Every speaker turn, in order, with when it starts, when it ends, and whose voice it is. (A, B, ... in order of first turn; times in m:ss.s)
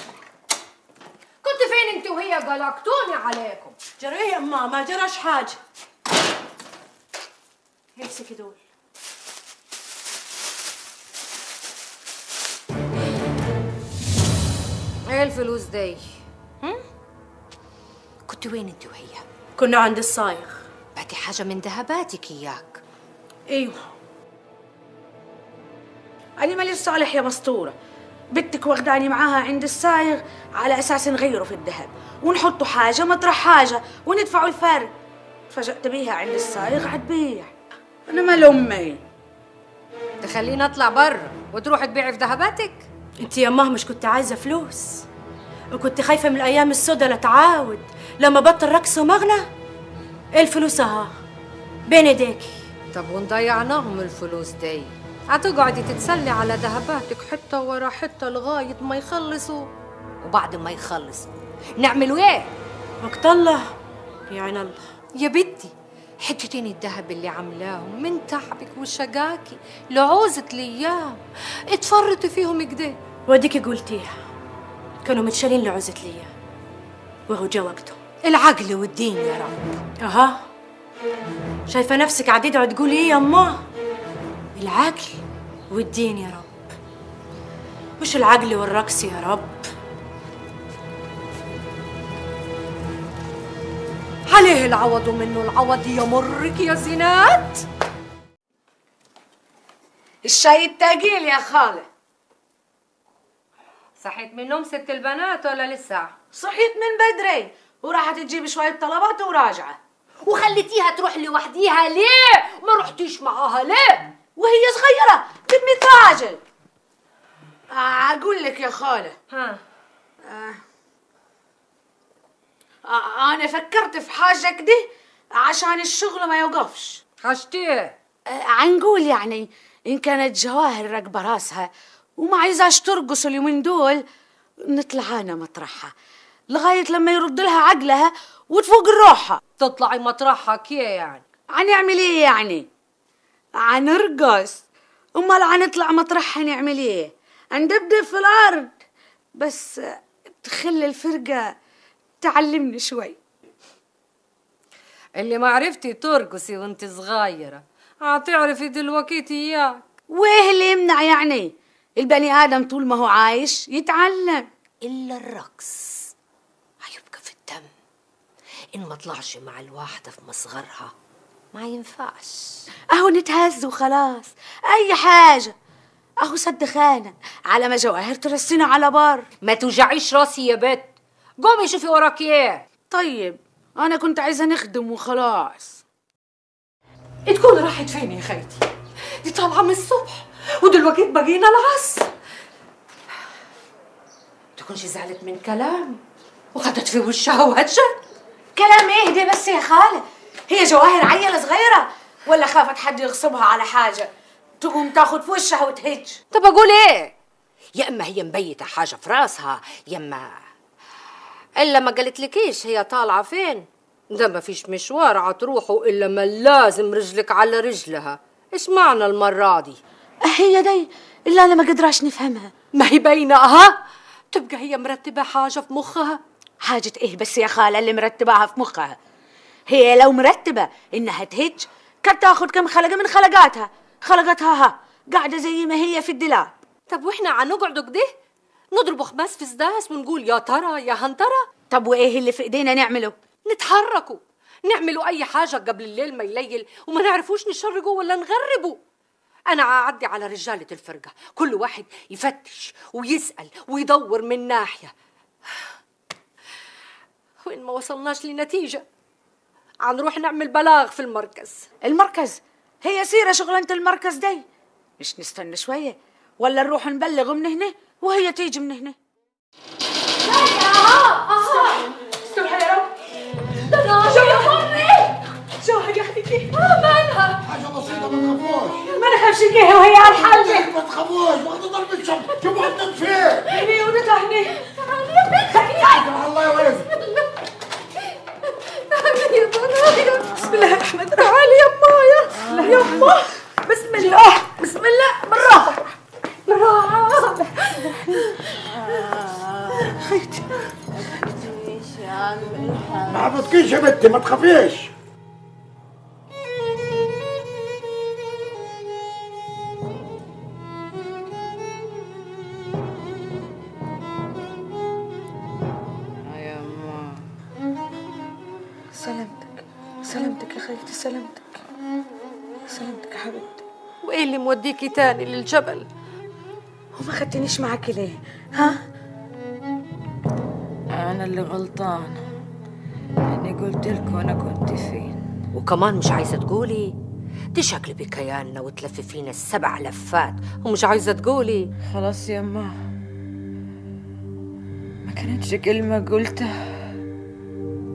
0:01.4-0:03.8 A
0:04.0-0:05.6 B
0:08.0-0:08.6 B
0:15.1-0:16.0 A
0:18.3-0:19.2 A
0:19.6-0:20.6 B
0:21.0-0:22.8 A
0:23.5-0:23.8 B
0:26.4-0:27.8 C
0:28.3-0:34.9 C
0:35.5-0:39.0 C
0:40.2-0:42.9 A
0:43.2-0:45.1 B
0:45.7-0:49.5 B
0:50.4-0:51.1 B
0:51.9-0:52.6 B
0:52.9-0:59.7 A
1:00.2-1:02.5 A
1:03.0-1:03.6 B
1:04.3-1:04.8 B
1:05.1-1:13.0 A
1:13.3-1:14.1 B
1:15.0-1:16.3 B
1:17.3-1:18.0 B
1:18.2-1:19.7 A
1:20.0-1:20.4 B
1:21.7-1:23.6 B
1:24.6-1:26.5 B
1:28.0-1:29.6 B
1:34.3-1:37.7 A
1:40.2-1:41.9 C
1:44.0-1:46.1 A
1:46.3-1:49.8 C
1:50.2-1:54.2 A
1:54.4-1:56.4 C
1:57.7-1:59.2 C
1:59.3-1:59.6 A
2:00.3-2:00.6 C
2:02.8-2:07.0 C
2:07.2-2:08.0 A
2:08.3-2:14.0 C
2:14.7-2:15.9 C
2:16.5-2:19.4 C
2:19.6-2:21.2 A
2:21.6-2:22.7 C
2:23.7-2:24.6 C
2:25.2-2:28.7 C
2:29.4-2:29.8 C
2:30.4-2:31.5 C
2:32.2-2:33.2 C
2:35.2-2:39.8 A
2:40.1-2:44.5 C
2:44.8-2:46.1 A
2:46.8-2:47.7 A
2:48.7-2:50.9 A
2:51.5-2:52.6 A
2:52.9-2:55.5 C
2:56.2-2:59.3 C
2:59.4-3:02.6 A
3:02.9-3:05.8 C
3:07.3-3:08.7 A
3:09.2-3:12.1 A
3:14.6-3:16.0 A
3:16.5-3:17.9 A
3:18.6-3:26.2 C
3:26.3-3:27.1 A
3:27.8-3:30.4 A
3:31.6-3:39.8 A
3:40.2-3:42.5 C
3:42.7-3:43.8 A
3:44.3-3:46.2 A
3:46.6-3:49.0 C
3:49.7-3:56.5 C
3:56.9-3:58.1 A
3:58.7-4:01.5 A
4:01.7-4:03.2 C
4:03.5-4:08.8 A
4:09.5-4:14.9 A
4:17.4-4:18.8 A
4:19.8-4:21.7 A
4:21.8-4:24.4 C
4:25.0-4:29.0 C
4:30.2-4:32.9 A
4:33.7-4:35.2 A
4:36.3-4:37.4 A
4:37.4-4:38.8 D
4:39.1-4:40.4 C
4:40.0-4:43.7 D
4:43.7-4:44.3 B
4:44.8-4:46.0 A
4:45.8-4:46.9 D
4:48.7-4:53.2 A
4:50.3-4:51.0 B
4:52.4-4:53.3 B
4:53.7-4:55.8 A
4:54.0-4:54.5 B
4:56.5-4:58.0 A
5:00.0-5:00.3 C
5:01.2-5:02.9 E
5:03.0-5:04.9 D
5:16.2-5:17.2 E
5:18.9-5:21.6 C
5:22.7-5:23.6 C
5:24.0-5:25.9 A
5:27.0-5:28.8 C
5:30.9-5:32.2 E
5:33.2-5:35.2 E
5:35.5-5:37.0 A
5:37.6-5:41.7 A
5:41.8-5:42.8 E
5:45.0-5:46.6 E